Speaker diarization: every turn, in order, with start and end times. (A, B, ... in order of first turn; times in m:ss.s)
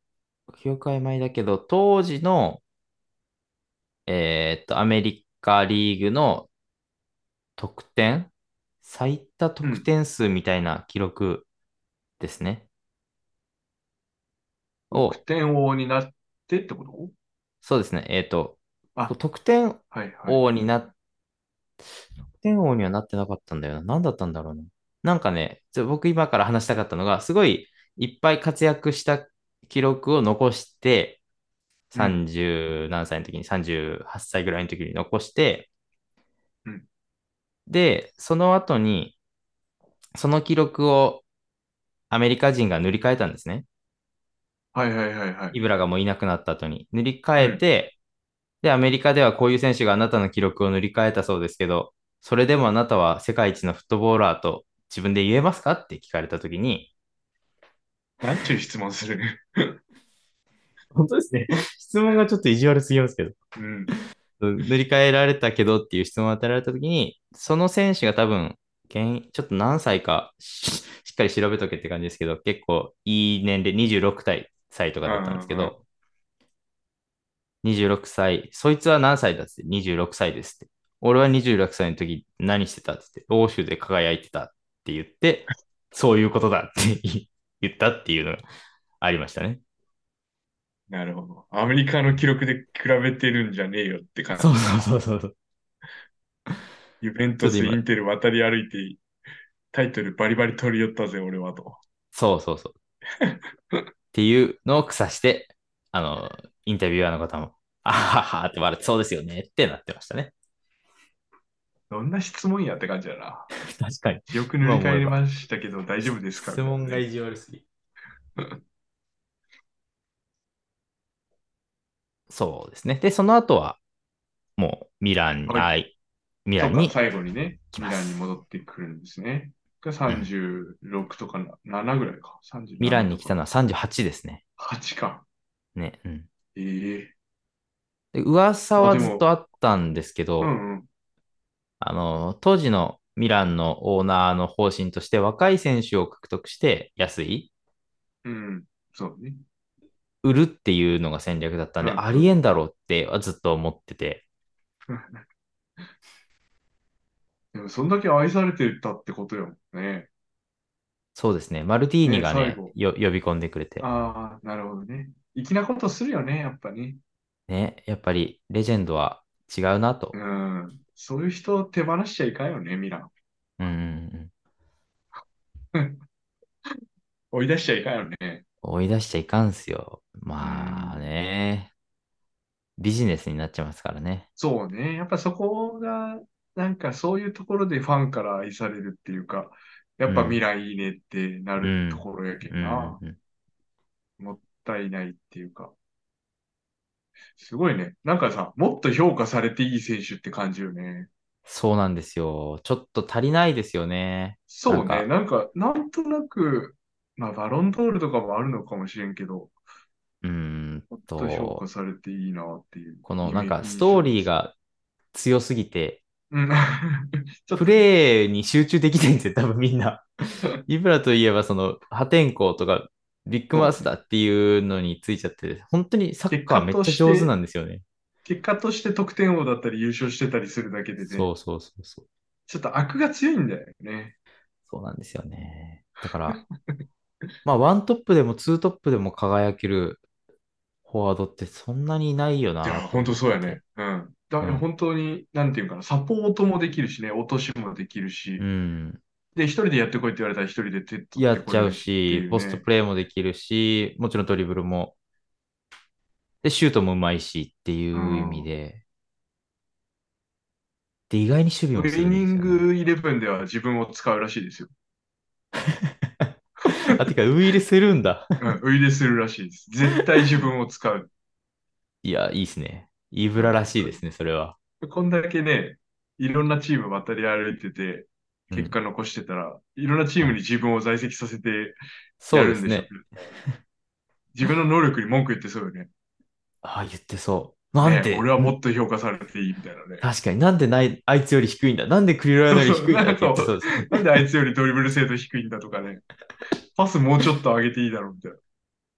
0:00.5-0:02.6 A
0:04.1-0:06.5 A
0:07.6-0:08.3 A
0:08.8-0:11.5 A
0:09.6-0:09.9 B
0:12.2-0:12.6 A
0:14.9-0:15.2 A
0:14.9-0:17.1 B
0:17.6-0:20.9 A
0:19.9-0:20.4 B
0:22.4-0:31.2 A
0:31.9-0:35.7 A
0:31.9-0:32.2 B
0:37.7-0:39.2 A
0:40.2-0:41.2 A
0:42.1-0:43.6 A
0:44.7-0:45.6 B
0:45.5-0:48.0 A
0:48.6-0:56.9 A
0:58.2-0:59.8 B
1:00.9-1:03.4 A
1:03.6-1:03.9 B
1:03.9-1:15.8 A
1:15.0-1:15.8 B
1:17.6-1:28.4 A
1:29.0-1:29.6 A
1:30.9-1:34.9 B
1:34.4-1:35.3 A
1:37.0-1:39.0 B
1:37.4-1:37.8 A
1:39.7-1:41.8 B
1:42.1-1:42.8 A
1:43.2-1:43.8 B
1:44.1-1:50.3 A
1:51.9-1:53.5 B
1:53.7-1:55.2 A
1:54.3-1:57.0 B
1:56.4-1:57.6 A
2:02.3-2:03.8 A
2:04.6-2:05.9 A
2:06.4-2:07.0 A
2:06.6-2:13.4 B
2:07.7-2:08.2 A
2:12.8-2:14.4 A
2:14.6-2:15.2 B
2:15.8-2:16.3 A
2:16.6-2:17.1 B
2:18.1-2:20.5 A
2:18.8-2:19.3 B
2:20.4-2:20.9 B
2:21.8-2:27.5 A
2:28.2-2:29.4 B
2:30.2-2:34.2 A
2:31.8-2:32.3 B
2:34.9-2:35.2 B
2:37.5-2:40.1 B
2:41.1-2:43.8 A
2:42.0-2:42.7 B
2:43.8-2:47.0 B
2:47.5-2:50.1 A
2:50.1-2:53.1 B
2:53.6-2:54.3 A
2:57.3-2:58.4 B
2:58.6-3:01.7 A
3:00.4-3:01.0 B
3:02.8-3:04.3 A
3:04.4-3:13.0 B
3:10.0-3:10.4 A
3:11.6-3:13.2 A
3:14.2-3:15.7 B
3:17.3-3:21.1 B
3:21.4-3:25.1 A
3:24.5-3:29.5 B
3:30.2-3:31.6 A
3:30.9-3:34.3 B
3:33.0-3:34.5 A
3:35.1-3:36.0 A
3:36.3-3:37.9 B
3:37.6-3:47.8 A
3:43.5-3:43.9 B
3:46.3-3:47.3 B
3:48.2-3:51.3 B
3:51.0-3:52.0 A
3:52.5-3:54.1 B
3:54.7-3:56.4 A
3:56.3-3:56.8 B
3:57.4-4:00.0 A
4:00.9-4:03.6 A
4:02.6-4:08.4 B
4:08.4-4:09.0 A
4:09.4-4:12.6 B
4:11.2-4:14.9 A
4:16.4-4:18.8 A
4:17.9-4:18.5 B
4:21.1-4:22.6 A
4:21.8-4:24.7 B
4:25.7-4:28.4 A
4:26.7-4:27.1 B
4:28.4-4:31.1 B
4:32.0-4:34.5 A
4:33.4-4:34.0 B
4:34.8-4:41.8 B
4:42.2-4:42.9 A
4:42.3-4:43.0 B
4:44.3-4:45.9 B
4:46.6-4:48.5 A
4:47.8-4:50.1 B
4:50.0-4:54.0 A
4:52.5-4:56.1 B
4:56.7-4:58.4 B